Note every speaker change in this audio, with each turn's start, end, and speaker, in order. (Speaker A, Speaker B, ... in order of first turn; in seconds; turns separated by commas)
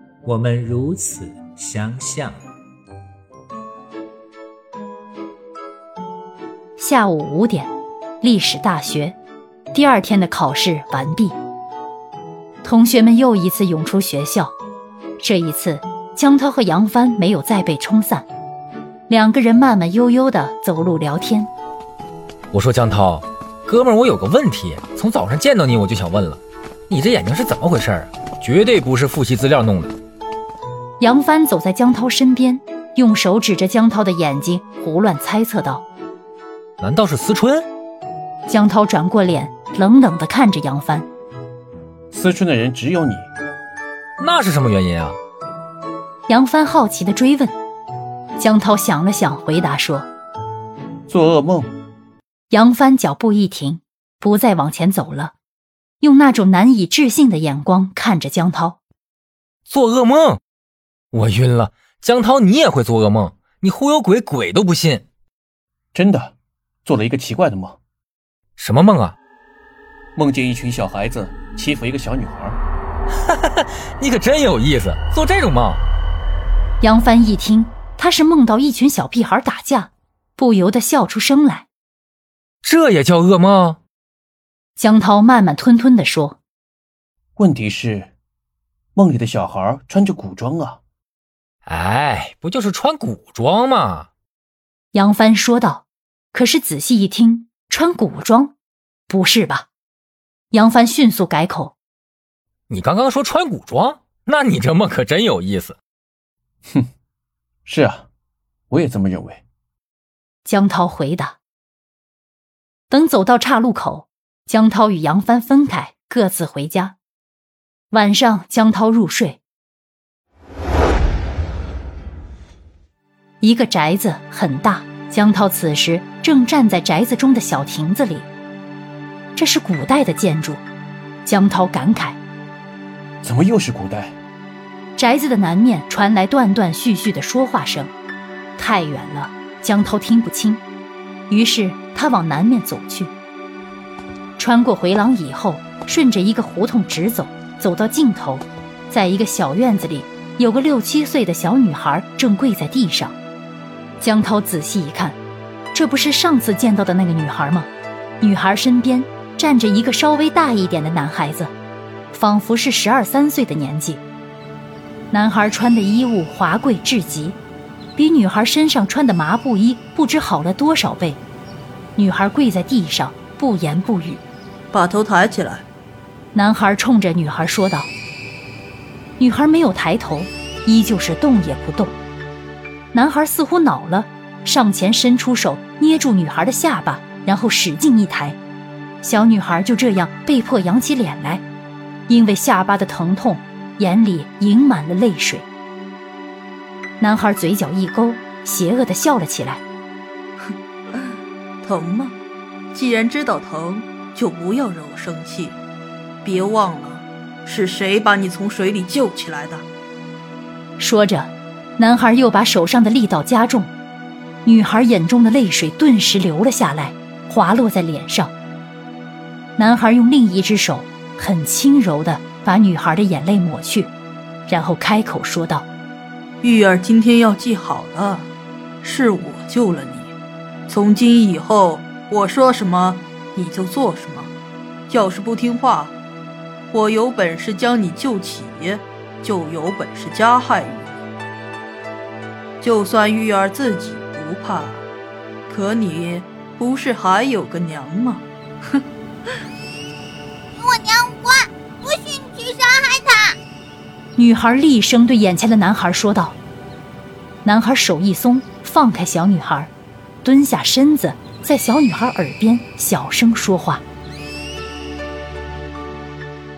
Speaker A: 0.2-2.4, Speaker B: 6.8-9.2, Speaker B: 9.7-11.4, Speaker B: 12.6-14.6, Speaker B: 15.2-18.3, Speaker B: 19.1-21.5, Speaker C: 22.5-29.9, Speaker B: 31.0-35.9, Speaker C: 36.8-37.7, Speaker B: 38.5-41.1, Speaker D: 42.1-43.3, Speaker C: 44.2-45.2, Speaker B: 46.3-47.5, Speaker B: 48.4-50.1, Speaker D: 51.1-51.7, Speaker B: 52.5-55.4, Speaker B: 56.0-58.8, Speaker C: 59.7-60.4, Speaker C: 61.1-65.0, Speaker D: 65.9-67.8, Speaker C: 68.6-69.2, Speaker D: 70.2-72.6, Speaker C: 73.3-75.8, Speaker B: 76.8-81.7, Speaker C: 82.6-83.8, Speaker B: 84.8-86.4, Speaker D: 87.4-88.1, Speaker D: 89.0-90.8, Speaker C: 91.7-94.1, Speaker B: 94.9-98.5, Speaker B: 99.1-99.7, Speaker B: 100.5-101.8, Speaker C: 102.7-105.8, Speaker D: 107.7-108.1, Speaker D: 108.7-109.4, Speaker B: 110.5-111.4, Speaker B: 112.9-117.0, Speaker B: 117.9-119.4, Speaker B: 123.4-128.3, Speaker B: 129.4-130.6, Speaker B: 131.2-132.2, Speaker D: 133.2-134.2, Speaker B: 135.0-137.9, Speaker B: 138.6-140.6, Speaker B: 141.3-143.1, Speaker B: 144.4-153.2, Speaker B: 154.0-155.2, Speaker B: 155.7-161.5, Speaker B: 162.1-164.0, Speaker B: 165.1-167.4, Speaker B: 167.9-171.2, Speaker B: 172.0-174.2, Speaker E: 174.7-175.7, Speaker B: 176.3-177.9, Speaker B: 179.2-181.9, Speaker B: 182.9-188.4, Speaker B: 189.0-191.4, Speaker B: 192.1-195.5, Speaker B: 197.0-199.6, Speaker E: 201.6-202.2, Speaker E: 202.7-205.6, Speaker E: 206.2-209.7, Speaker B: 210.8-213.7, Speaker B: 214.4-218.3, Speaker B: 219.6-223.9, Speaker B: 224.5-225.7, Speaker E: 226.4-228.3, Speaker E: 228.8-230.2, Speaker E: 230.7-234.3, Speaker E: 234.9-236.0, Speaker E: 236.7-241.0, Speaker E: 242.6-244.9, Speaker E: 245.5-248.8, Speaker F: 250.6-253.3, Speaker B: 254.2-256.4, Speaker B: 257.4-259.7, Speaker B: 260.2-263.8